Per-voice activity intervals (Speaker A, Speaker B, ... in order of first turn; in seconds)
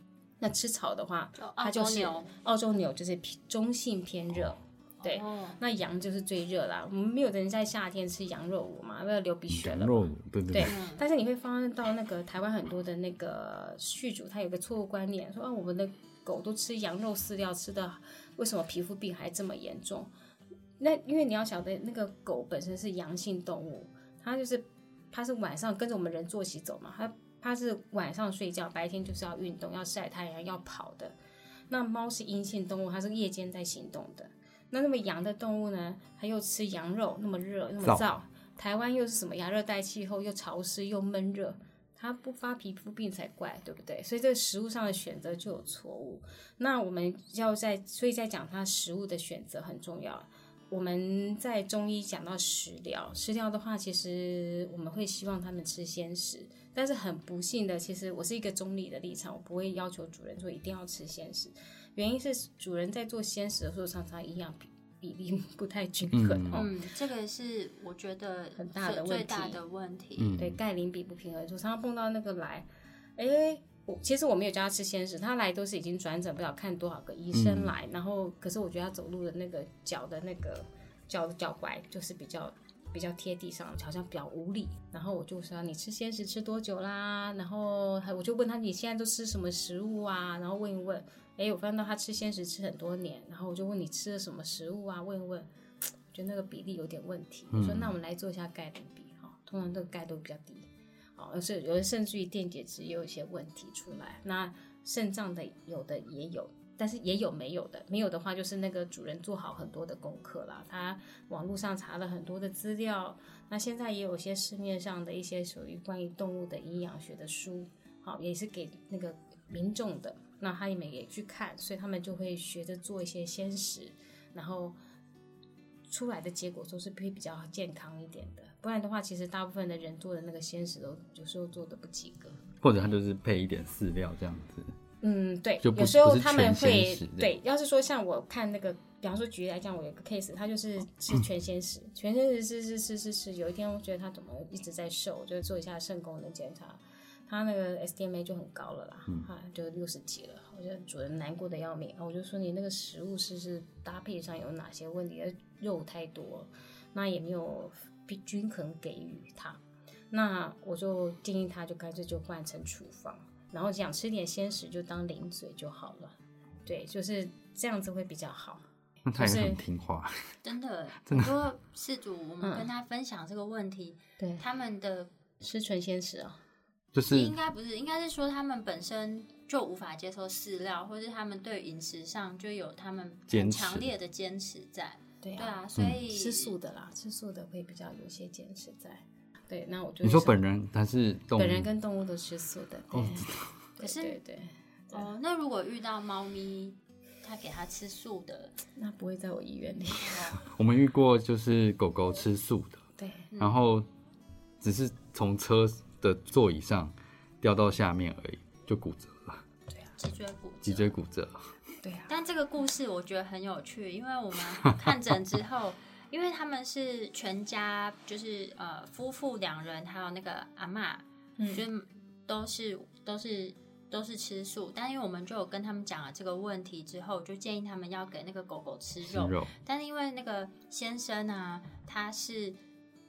Speaker A: 0.4-20.1, 20.8-31.1, 31.7-66.7, 68.6-69.6, 70.4-95.5, 96.1-124.8, 125.9-132.4, 135.0-159.6, 160.1-168.6, 169.1-169.6, 172.4-172.7, 174.2-174.4, 175.4-176.4, 185.2-190.4, 191.4-195.1, 198.7-200.4, 203.0-203.3, 211.8-212.1, 221.4-221.7
Speaker B: 1.4-2.3, 5.0-5.6, 10.6-11.0, 66.5-70.4, 170.4-175.1, 177.1-186.5, 193.8-194.2, 194.9-198.5, 200.0-200.4, 203.3-203.6, 210.0-210.9, 212.1-232.6
Speaker C: 9.5-10.7, 66.1-66.7, 70.2-70.6, 77.3-77.7, 97.5-97.9, 132.6-134.7, 135.6-137.3, 169.0-170.3, 171.1-171.4, 176.9-177.3, 183.3-183.9, 190.0-191.7, 192.9-193.5, 200.4-202.8, 203.4-203.9, 204.6-209.4, 210.6-211.5, 229.0-229.5